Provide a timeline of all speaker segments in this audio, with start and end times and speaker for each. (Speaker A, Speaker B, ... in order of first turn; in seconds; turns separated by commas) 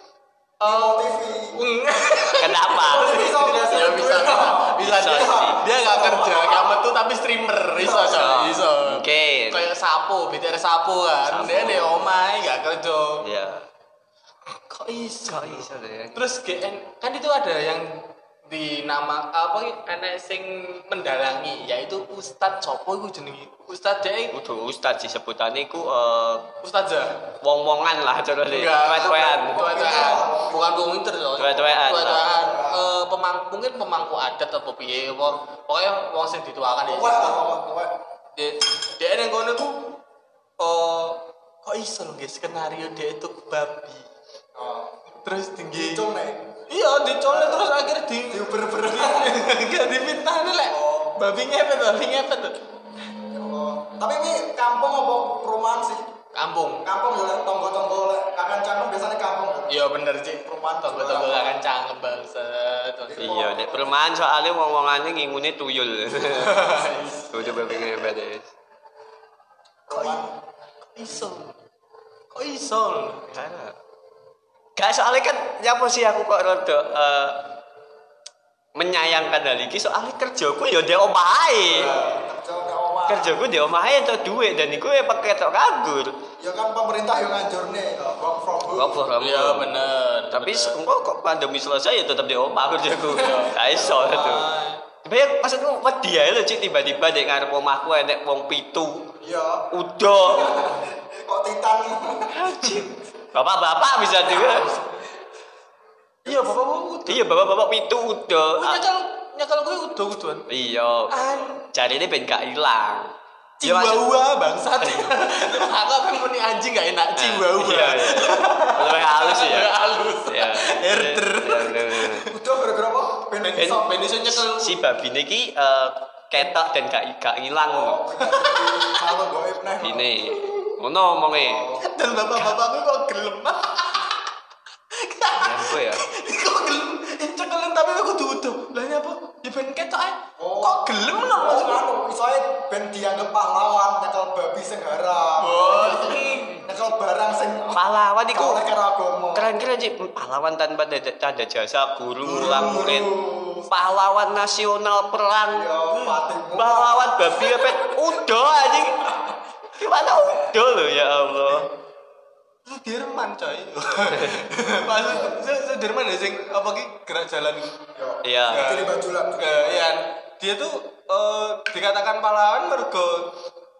Speaker A: 0.6-1.6, Speaker B: 0.6-13.2, Speaker C: 2.4-3.2, Speaker A: 2.8-6.8, Speaker C: 4.8-5.6, Speaker A: 7.8-8.2, Speaker C: 8.1-9.7, Speaker C: 11.3-12.1, Speaker C: 13.2-13.7, Speaker B: 14.7-24.4, Speaker C: 15.3-16.2, Speaker C: 24.3-26.5, Speaker B: 26.6-27.2, Speaker C: 27.4-29.7, Speaker B: 28.5-37.4, Speaker A: 29.4-30.7, Speaker C: 31.4-32.3, Speaker A: 32.3-32.9, Speaker A: 36.9-38.0, Speaker B: 38.4-39.9, Speaker B: 40.6-44.1, Speaker A: 44.5-44.9, Speaker B: 45.2-46.0, Speaker A: 45.7-46.5, Speaker B: 46.7-52.6, Speaker A: 47.3-49.5, Speaker A: 50.6-51.2, Speaker A: 53.2-56.1, Speaker B: 56.3-56.9, Speaker A: 56.8-59.8, Speaker B: 59.7-63.4, Speaker A: 60.4-61.6, Speaker A: 63.1-64.0, Speaker C: 63.2-68.5, Speaker B: 66.2-68.0, Speaker A: 69.9-70.3, Speaker B: 69.9-71.6, Speaker B: 72.3-73.3, Speaker C: 73.3-73.8, Speaker C: 74.8-77.5, Speaker C: 78.7-82.0, Speaker B: 81.6-82.2, Speaker A: 81.8-83.4, Speaker C: 83.1-86.2, Speaker A: 86.4-89.0, Speaker C: 88.7-89.8, Speaker B: 89.2-90.8, Speaker C: 90.3-94.5, Speaker B: 93.0-94.8, Speaker C: 95.0-99.1, Speaker A: 99.2-102.5, Speaker C: 99.7-100.7, Speaker C: 102.3-104.8, Speaker A: 104.4-104.8, Speaker B: 106.2-107.2, Speaker C: 107.1-108.8, Speaker B: 108.6-110.5, Speaker C: 110.5-114.0, Speaker B: 111.1-111.6, Speaker B: 113.6-122.3, Speaker C: 117.2-122.3, Speaker A: 122.3-123.9, Speaker B: 123.4-124.8, Speaker C: 123.6-128.0, Speaker A: 127.6-130.2, Speaker B: 128.2-129.1, Speaker C: 129.8-131.7, Speaker B: 130.4-130.7, Speaker A: 131.3-131.8, Speaker B: 131.8-134.3, Speaker B: 134.9-141.8, Speaker C: 135.3-136.0, Speaker A: 140.4-149.5, Speaker B: 145.4-146.7, Speaker C: 147.7-148.6, Speaker C: 149.3-155.7, Speaker A: 152.2-153.7, Speaker A: 155.5-158.8, Speaker B: 155.9-156.3, Speaker C: 156.6-159.1, Speaker C: 159.8-161.7, Speaker A: 160.1-160.3, Speaker B: 162.6-167.9, Speaker C: 164.1-164.4, Speaker A: 167.9-169.8, Speaker C: 168.2-168.8, Speaker B: 168.5-173.4